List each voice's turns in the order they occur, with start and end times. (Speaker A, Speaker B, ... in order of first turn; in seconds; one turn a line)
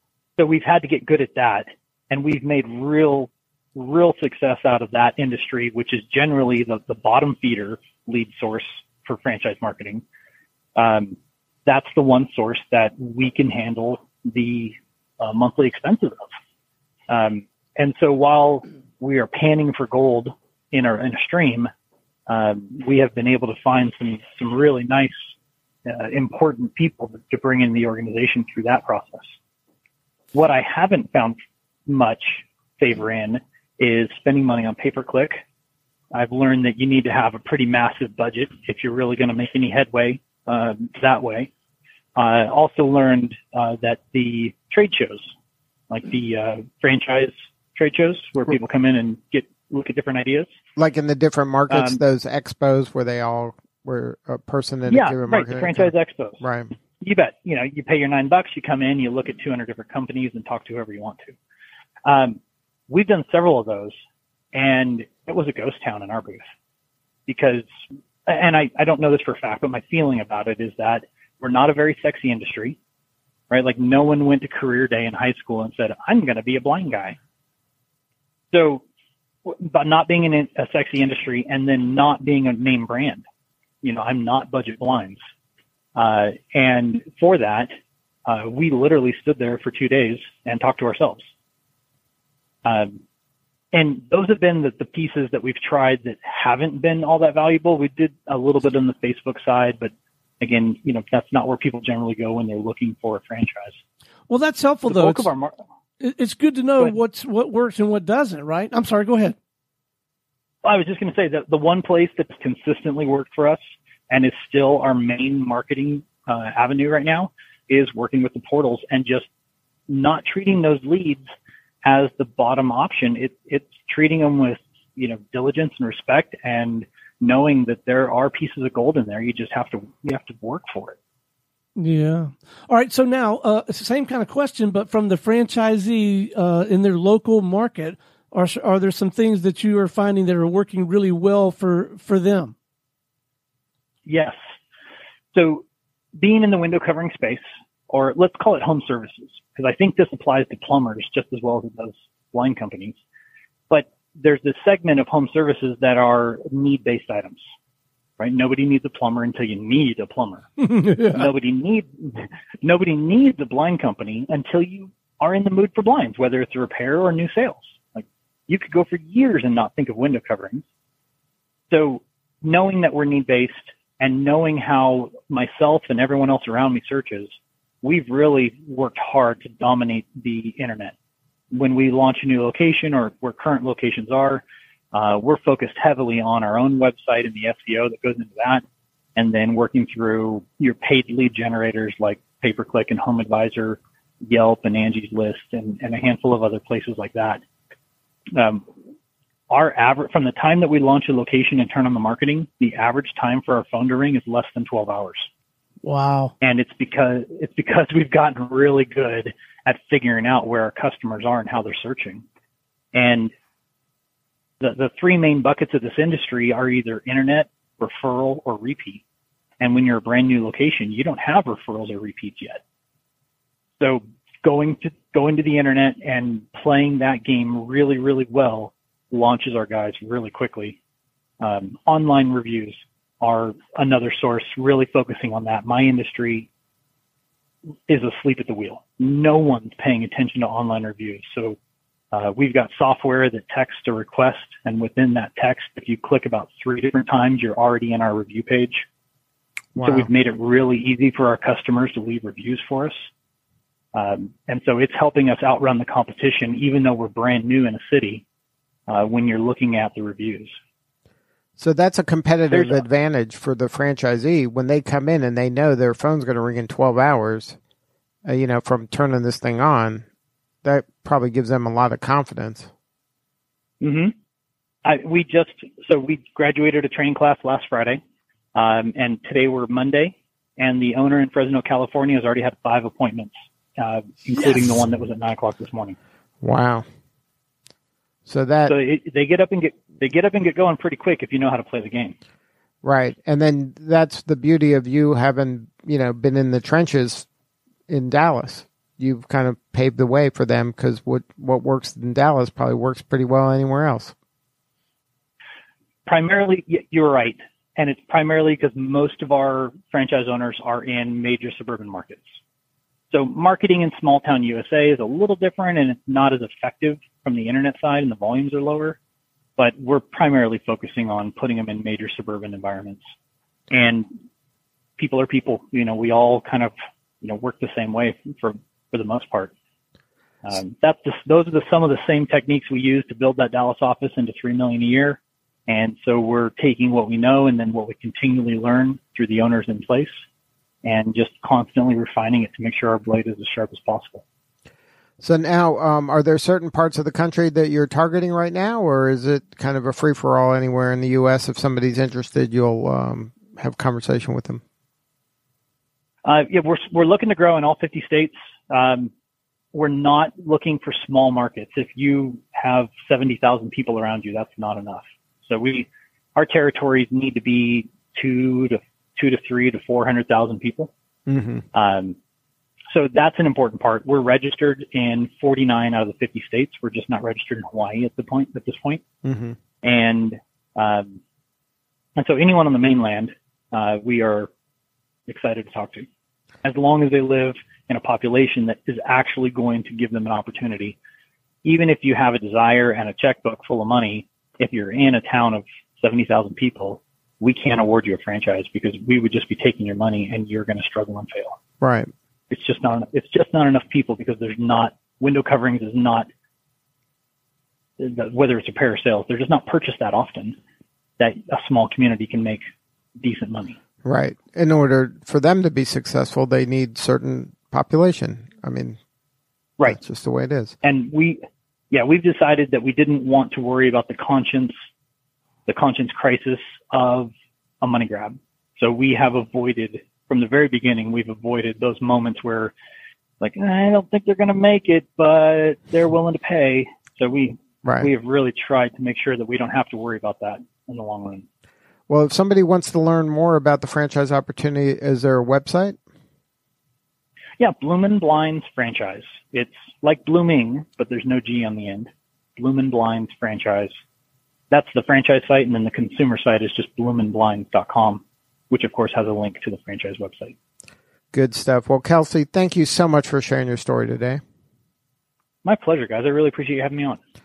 Speaker A: 0.4-10.0
Speaker A: 10.8-16.3
Speaker A: 17.1-21.7
Speaker A: 22.3-25.3
Speaker A: 25.9-29.4
Speaker A: 30.3-35.4
Speaker A: 36.1-41.5
Speaker A: 42.1-45.3
Speaker A: 45.9-50.5
Speaker B: 50.8-56.7
Speaker A: 51.7-52.0
Speaker A: 54.9-56.4
Speaker A: 57.0-61.4
Speaker A: 62.0-64.0
Speaker A: 64.5-66.5
Speaker A: 67.3-67.7
Speaker A: 68.2-72.8
Speaker A: 73.5-77.2
Speaker A: 78.5-78.8
Speaker A: 79.4-83.2
Speaker A: 83.8-85.2
Speaker A: 86.0-87.7
Speaker A: 88.3-91.3
Speaker A: 92.6-93.0
Speaker A: 93.7-103.8
Speaker C: 104.3-105.3
Speaker A: 104.9-105.5
Speaker C: 106.0-109.3
Speaker A: 110.6-119.3
Speaker A: 119.9-121.3
Speaker A: 121.8-130.9
Speaker C: 131.8-142.5
Speaker A: 144.1-144.4
Speaker A: 145.3-145.6
Speaker A: 146.2-153.0
Speaker A: 153.7-157.5
Speaker A: 158.2-170.7
Speaker C: 160.6-161.3
Speaker A: 171.7-180.9
Speaker A: 181.5-188.6
Speaker A: 189.2-197.4
Speaker A: 198.3-198.7
Speaker A: 199.5-205.3
Speaker C: 205.8-206.3
Speaker A: 206.4-212.2
Speaker A: 212.9-213.3
Speaker A: 214.6-219.0
Speaker A: 219.6-222.6
Speaker A: 223.8-230.8
Speaker A: 231.4-236.5
Speaker A: 237.9-241.6
Speaker A: 242.1-248.8
Speaker A: 249.8-253.1
Speaker B: 249.8-250.1
Speaker A: 253.9-258.2
Speaker A: 258.9-260.6
Speaker B: 261.6-267.6
Speaker A: 262.5-262.8
Speaker B: 268.2-270.0
Speaker B: 270.6-272.7
Speaker A: 273.8-274.1
Speaker A: 274.8-278.0
Speaker A: 278.5-286.0
Speaker B: 286.4-286.8
Speaker B: 288.2-288.8
Speaker A: 288.6-292.2
Speaker B: 292.8-297.2
Speaker B: 297.9-304.1
Speaker A: 306.1-312.4
Speaker A: 313.1-319.0
Speaker A: 319.6-323.0
Speaker A: 323.7-324.1
Speaker A: 325.0-329.5
Speaker A: 330.4-340.2
Speaker A: 340.8-344.2
Speaker B: 345.2-354.6
Speaker A: 356.2-359.1
Speaker A: 359.7-370.9
Speaker B: 371.3-371.6
Speaker A: 371.7-372.2
Speaker A: 372.9-379.0
Speaker B: 379.2-379.6
Speaker A: 379.8-381.2
Speaker A: 382.2-384.5
Speaker A: 385.3-386.1
Speaker A: 386.6-391.0
Speaker A: 391.6-401.6
Speaker B: 401.8-402.1
Speaker A: 402.5-406.3
Speaker A: 408.0-410.6
Speaker A: 411.2-412.6
Speaker A: 413.2-413.8
Speaker B: 414.0-419.0
Speaker B: 419.9-420.8
Speaker A: 420.8-424.8
Speaker A: 425.7-432.7
Speaker A: 433.4-441.4
Speaker B: 442.1-446.0
Speaker A: 447.6-454.0
Speaker A: 454.7-460.5
Speaker B: 461.3-464.4
Speaker A: 465.6-467.2